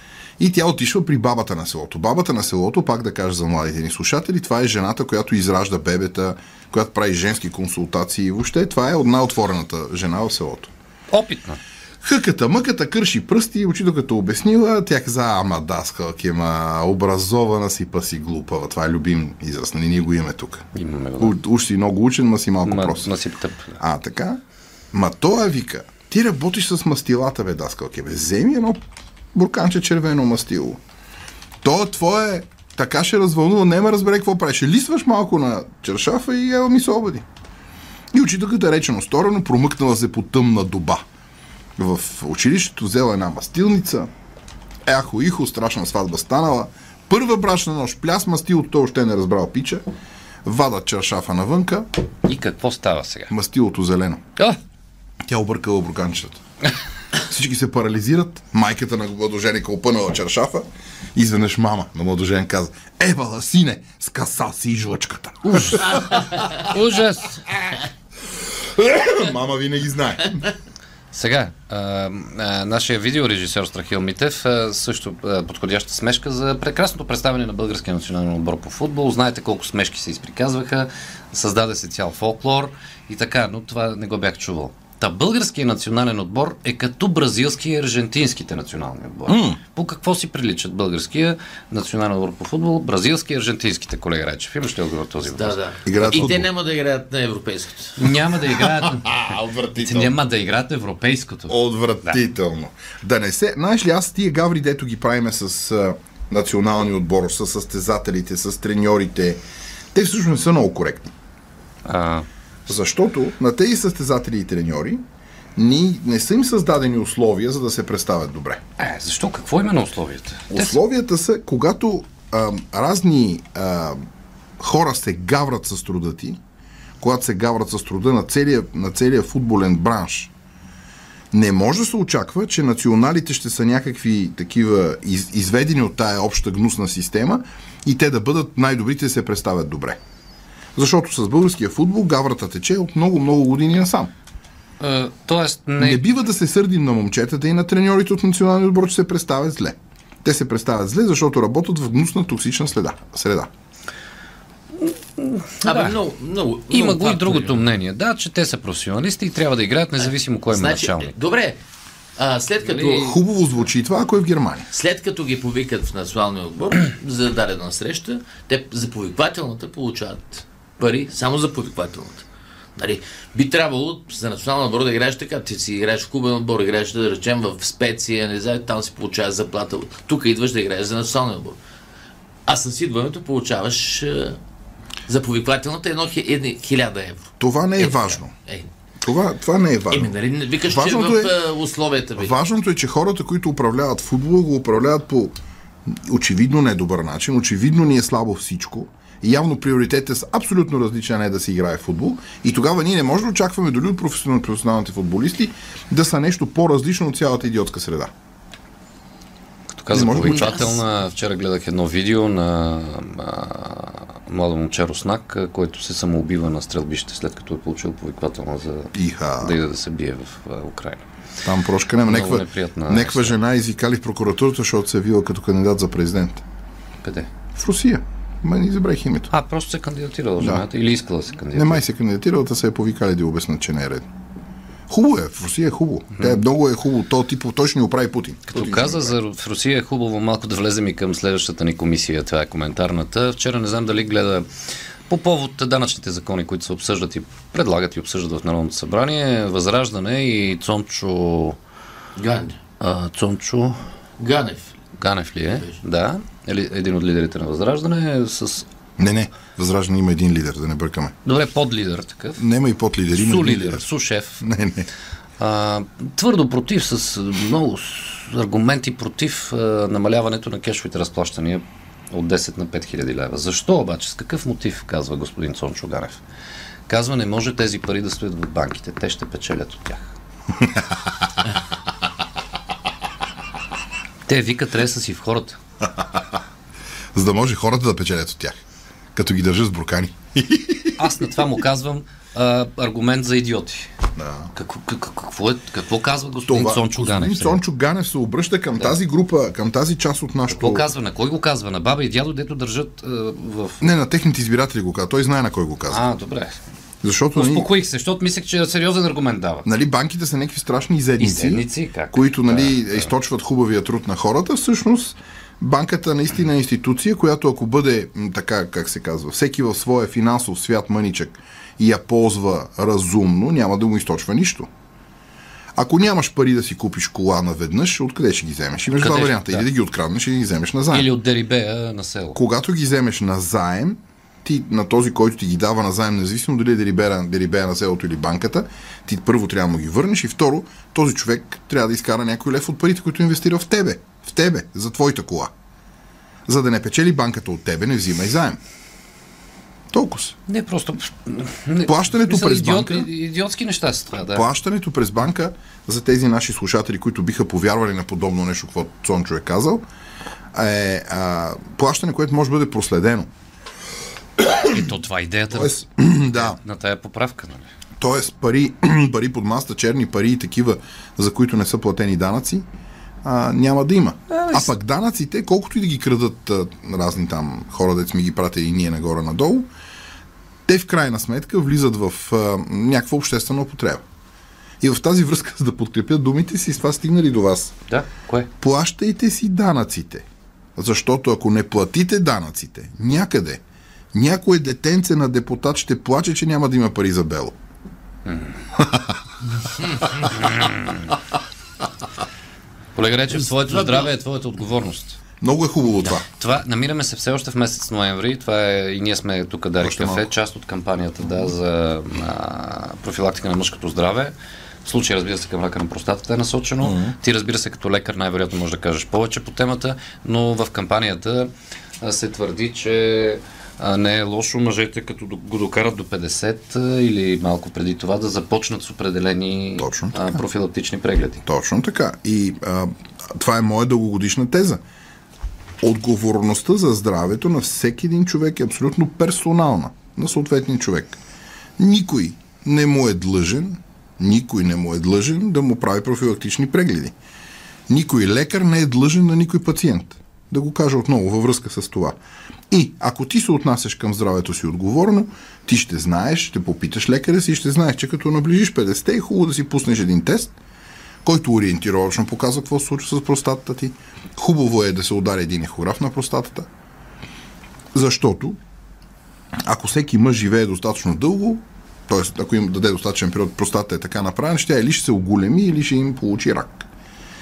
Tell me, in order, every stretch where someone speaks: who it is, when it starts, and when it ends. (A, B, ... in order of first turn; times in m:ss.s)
0:00.4-0:10.7 A
0:11.1-0:11.6 B
0:12.0-0:20.6 A
0:20.7-0:21.4 B
0:21.2-0:23.1 A
0:22.6-0:23.8 B
0:23.8-0:24.4 A
0:24.9-0:28.8 A
0:29.3-0:30.8 A
0:31.6-0:37.2 A
0:38.1-0:41.0 A
0:41.8-0:44.1 A
0:44.8-0:49.8 A
0:50.4-0:51.8 A
0:52.2-0:53.3 B
0:53.3-0:54.2 A
0:55.3-0:56.4 A
0:57.2-1:06.4 A
1:05.4-1:07.5 B
1:08.4-1:10.5 A
1:11.1-1:35.6 B
1:29.3-1:29.6 A
1:35.3-1:38.0 C
1:35.8-1:36.5 A
1:38.0-1:39.2 B
1:38.3-1:40.1 A
1:39.7-1:42.2 B
1:41.5-1:49.4 A
1:49.9-1:51.1 A
1:51.8-1:52.3 B
1:52.7-1:55.0 A
1:55.6-1:58.6 A
1:58.8-2:00.8 B
2:00.5-2:04.0 A
2:04.6-2:06.4 A
2:07.0-2:10.3 A
2:11.3-2:20.0 A
2:20.7-2:24.1 A
2:24.8-2:26.0 B
2:25.8-2:33.5 A
2:34.8-2:36.0 B
2:35.6-2:37.6 C
2:36.7-2:41.1 B
2:40.0-2:41.6 C
2:42.2-2:43.1 C
2:42.6-2:43.0 B
2:42.9-2:44.7 A
2:44.7-2:52.2 C
2:52.8-3:01.6 C
3:02.4-3:04.4 C
3:05.1-3:08.7 C
3:07.4-3:08.3 A
3:09.0-3:10.1 A
3:09.9-3:12.3 C
3:10.6-3:11.3 A
3:12.2-3:28.1 A
3:29.7-3:41.0 B
3:29.9-3:30.6 A
3:30.2-3:30.8 C
3:38.9-3:39.6 A
3:41.4-3:46.4 A
3:42.0-3:43.4 B
3:47.0-3:47.3 B
3:47.5-3:49.3 A
3:49.3-3:51.8 B
3:50.4-3:50.7 A
3:51.5-3:54.0 A
3:54.9-3:59.2 A
3:58.5-4:04.5 B
4:05.1-4:11.6 B
4:12.2-4:12.6 C
4:12.8-4:13.8 B
4:14.2-4:14.8 C
4:15.0-4:18.7 B
4:19.0-4:21.1 A
4:21.2-4:22.4 B
4:22.4-4:23.8 A
4:23.1-4:24.4 B
4:24.4-4:24.9 A
4:25.4-4:36.2 B
4:36.9-4:40.1 B
4:44.3-4:45.6 B
4:46.0-4:46.2 A
4:47.1-4:48.6 A
4:49.1-4:51.3 A
4:51.0-4:53.9 B
4:54.2-4:54.5 A
4:54.5-4:57.6 B
4:56.5-5:00.8 A
5:00.5-5:03.9 B
5:03.8-5:06.0 A
5:05.9-5:06.6 B
5:07.0-5:07.7 A
5:07.3-5:09.6 B
5:09.6-5:24.7 A
5:11.2-5:13.1 B
5:25.8-5:31.1 A
5:29.0-5:29.7 B
5:30.9-5:32.4 B
5:32.3-5:45.5 A
5:46.5-5:48.6 A
5:49.9-5:50.3 A
5:50.5-5:54.4 B
5:51.8-5:53.1 A
5:54.3-5:59.8 A
6:00.5-6:03.3 A
6:04.4-6:04.8 A
6:04.6-6:07.7 B
6:05.5-6:06.6 A
6:08.0-6:12.6 A
6:13.2-6:19.7 A
6:14.3-6:14.7 B
6:20.7-6:24.0 A
6:24.8-6:27.7 A
6:27.9-6:28.5 B
6:28.6-6:30.2 A
6:30.8-6:33.6 A
6:34.1-6:37.6 A
6:38.3-6:38.6 B
6:38.8-6:39.1 A
6:40.2-6:41.0 B
6:42.9-6:45.2 B
6:45.4-6:46.2 A
6:46.0-7:01.5 B
6:49.8-6:50.3 A
6:56.8-6:57.1 A
7:02.0-7:11.4 B
7:09.8-7:10.4 A
7:11.4-7:14.8 A
7:15.8-7:21.2 A
7:21.8-7:27.1 A
7:27.9-7:32.2 A
7:32.7-7:40.5 A
7:41.2-7:46.7 A
7:47.9-7:48.6 A
7:49.6-7:56.8 A